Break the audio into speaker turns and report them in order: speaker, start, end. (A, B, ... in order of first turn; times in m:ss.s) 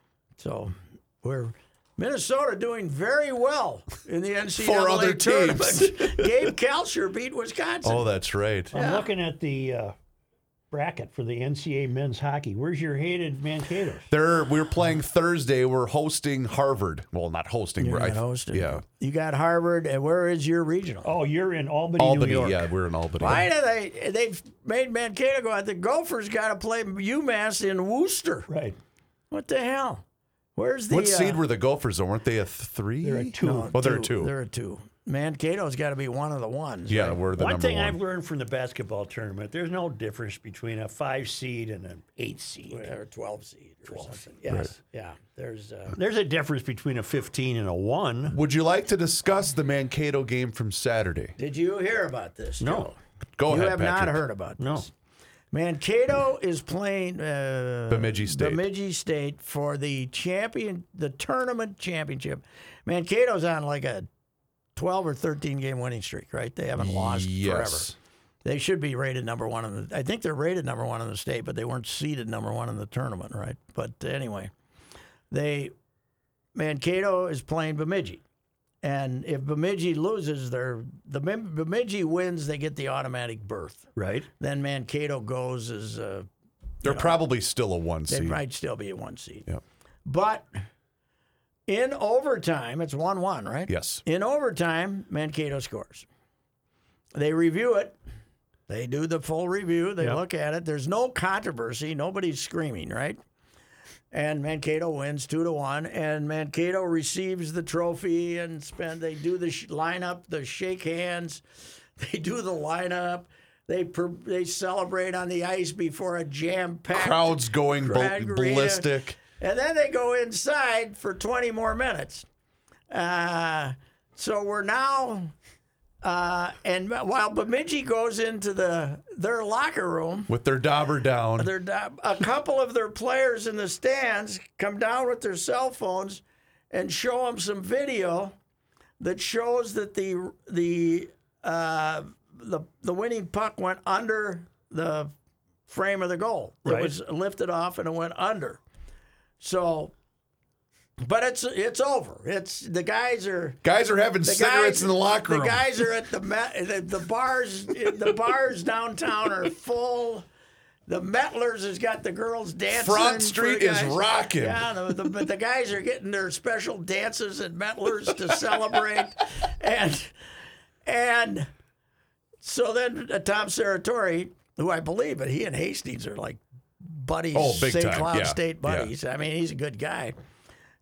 0:00.4-0:08.1 A
0:04.6-0:06.5 B
0:07.8-0:08.7 B
0:08.7-0:09.9 C
0:08.7-0:09.1 A
0:10.7-0:14.1 C
0:14.1-0:18.8 B
0:17.8-0:21.1 A
0:21.0-0:22.7 C
0:22.0-0:23.5 B
0:23.2-0:28.5 A
0:28.5-0:28.8 C
0:29.3-0:30.0 A
0:30.6-0:31.4 A
0:30.9-0:34.3 B
0:33.0-0:33.7 C
0:33.3-0:37.2 A
0:36.9-0:38.0 B
0:37.4-0:42.9 C
0:42.7-0:46.0 A
0:43.9-0:44.3 C
0:46.0-0:48.4 C
0:48.3-0:51.4 B
0:51.4-0:53.0 A
0:52.6-0:52.9 C
0:53.4-0:54.2 B
0:53.5-0:54.9 A
0:54.6-0:54.9 C
0:55.5-1:04.1 A
0:57.9-0:58.6 B
1:04.8-1:07.9 A
1:06.8-1:08.0 B
1:08.4-1:14.5 A
1:15.3-1:15.7 A
1:16.6-1:18.2 A
1:18.8-1:23.9 A
1:24.0-1:24.3 C
1:24.4-1:26.3 A
1:26.8-1:28.4 B
1:26.8-1:27.2 A
1:28.1-1:29.5 A
1:30.0-1:30.5 A
1:31.7-1:36.1 A
1:33.7-1:34.0 B
1:37.2-1:38.0 A
1:38.7-1:43.2 A
1:44.1-1:51.4 A
1:52.0-2:02.3 A
1:56.9-1:59.2 B
2:02.9-2:05.3 A
2:06.0-2:10.3 A
2:10.3-2:11.5 B
2:11.4-2:18.4 A
2:19.0-2:25.1 A
2:25.7-2:28.6 A
2:26.6-2:26.9 C
2:29.4-2:29.9 A
2:31.0-2:33.6 A
2:33.6-2:35.7 B
2:34.2-2:40.3 A
2:40.9-2:50.1 A
2:42.7-2:44.7 B
2:50.8-2:51.5 A
2:52.4-3:00.2 A
2:57.3-2:58.9 B